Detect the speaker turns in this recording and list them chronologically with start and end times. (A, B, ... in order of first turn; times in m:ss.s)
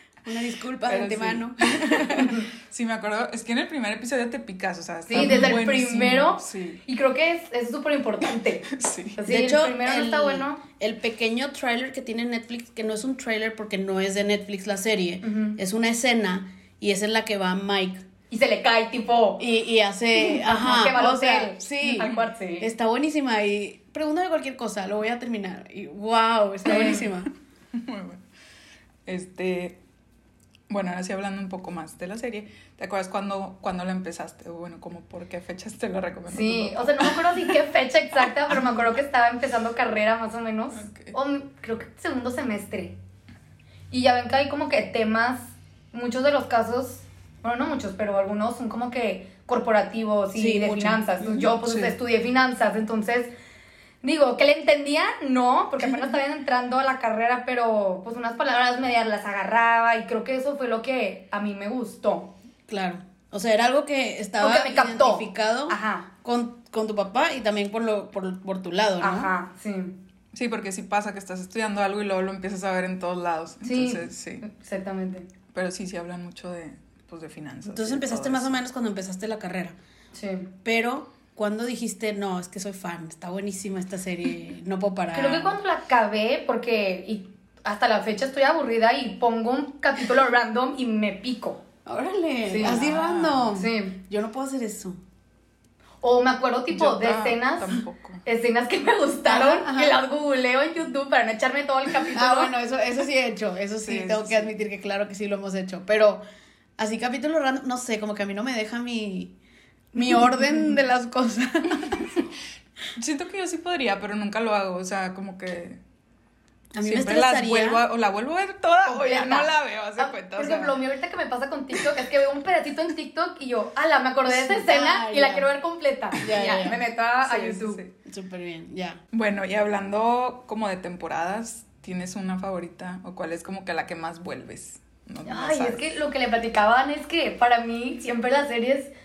0:00.2-0:02.5 A
0:00.9-0:06.8 B
0:05.1-0:10.6 C
0:05.1-0:05.6 A
0:08.7-0:09.2 B
0:09.3-0:18.0 A
0:15.2-0:15.6 C
0:18.3-0:19.4 C
0:19.4-0:27.3 A
0:20.2-0:22.7 C
0:26.7-0:27.0 C
0:26.7-0:27.1 B
0:27.7-0:28.2 B
0:29.1-0:29.8 B
0:30.7-0:37.5 B
0:36.3-0:43.0 C
0:40.7-0:41.1 B
0:43.9-0:53.3 C
0:50.4-0:51.5 A
0:51.5-0:51.9 B
0:54.0-1:02.3 C
1:02.7-1:09.3 A
1:04.4-1:06.1 C
1:09.0-1:10.0 C
1:10.3-1:14.4 B
1:13.6-1:15.3 C
1:15.5-1:18.6 B
1:17.7-1:19.8 A
1:20.1-1:20.5 C
1:20.6-1:25.6 A
1:25.1-1:31.6 C
1:31.9-1:35.0 A
1:32.5-1:32.8 C
1:32.6-1:33.5 B
1:33.5-1:34.0 C
1:36.0-1:42.5 C
1:36.7-1:38.2 B
1:39.3-1:40.0 A
1:42.1-1:46.2 A
1:43.8-1:44.5 B
1:46.8-1:49.4 A
1:49.9-1:52.1 A
1:51.8-1:52.2 B
1:53.0-1:55.8 B
1:56.7-1:57.8 A
1:56.8-2:00.8 B
1:58.9-2:07.8 C
2:04.3-2:05.5 A
2:06.1-2:06.8 A
2:07.2-2:07.9 B
2:08.0-2:09.0 A
2:09.1-2:15.9 B
2:15.3-2:18.9 C